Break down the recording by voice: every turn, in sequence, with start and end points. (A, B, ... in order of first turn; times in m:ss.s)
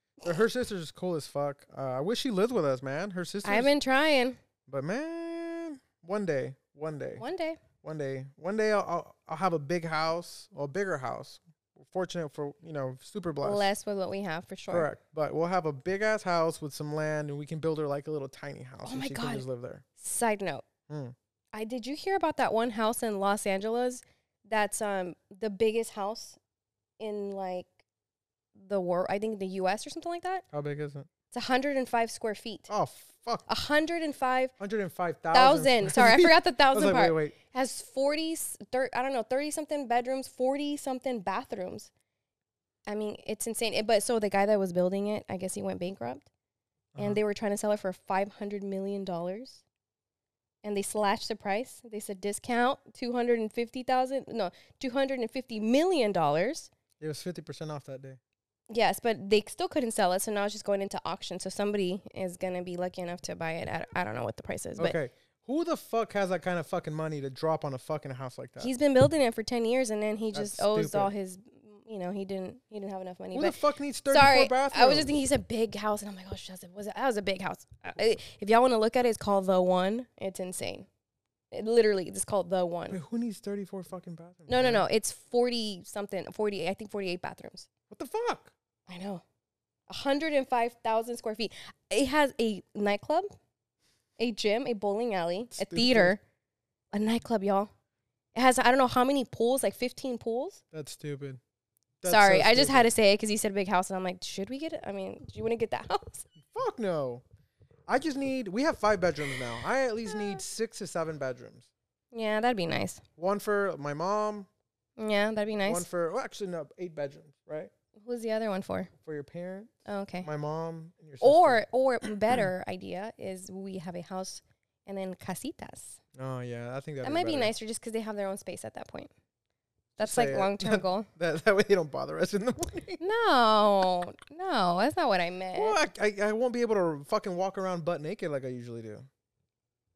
0:00.2-0:03.7 A
0:03.4-0:04.4 B
0:04.7-0:07.2 A
0:07.2-0:07.6 B
0:07.8-0:13.7 A
0:13.4-0:14.9 B
0:14.7-0:19.8 A
0:18.8-0:19.4 B
0:20.0-0:20.6 B
0:20.9-0:21.2 A
0:21.5-0:26.4 B
0:27.0-0:27.7 B
0:28.6-0:30.4 B
0:30.5-0:31.1 A
0:31.3-0:32.7 B
0:32.7-0:33.5 A
0:33.5-0:34.5 B
0:34.6-0:37.4 A
0:35.3-0:41.9 B
0:42.9-0:46.3 B
0:47.0-0:47.2 A
0:47.0-0:49.6 B
0:50.6-0:56.7 B
0:57.0-0:58.2 A
0:58.7-1:05.0 B
1:04.8-1:08.7 A
1:08.6-1:20.9 B
1:10.3-1:11.1 A
1:13.3-1:15.2 A
1:21.5-1:23.0 B
1:22.9-1:24.9 A
1:24.5-1:27.7 B
1:27.9-1:28.5 A
1:28.9-1:29.2 B
1:29.9-1:33.3 B
1:34.2-1:36.2 B
1:35.6-1:36.2 A
1:36.9-1:37.7 B
1:38.4-1:40.6 B
1:40.7-1:41.4 A
1:42.0-1:42.9 A
1:42.1-1:46.3 B
1:46.5-1:47.2 A
1:47.9-1:51.7 A
1:50.1-1:50.4 B
1:52.1-1:53.0 B
1:53.2-1:54.5 A
1:55.0-1:55.9 B
1:55.6-1:57.7 A
1:58.0-1:58.9 B
1:59.0-2:01.6 A
1:59.9-2:00.3 B
2:01.2-2:06.0 B
2:06.2-2:07.5 A
2:07.0-2:09.1 B
2:10.0-2:13.0 A
2:10.0-2:11.1 B
2:13.0-2:15.8 B
2:15.6-2:19.1 A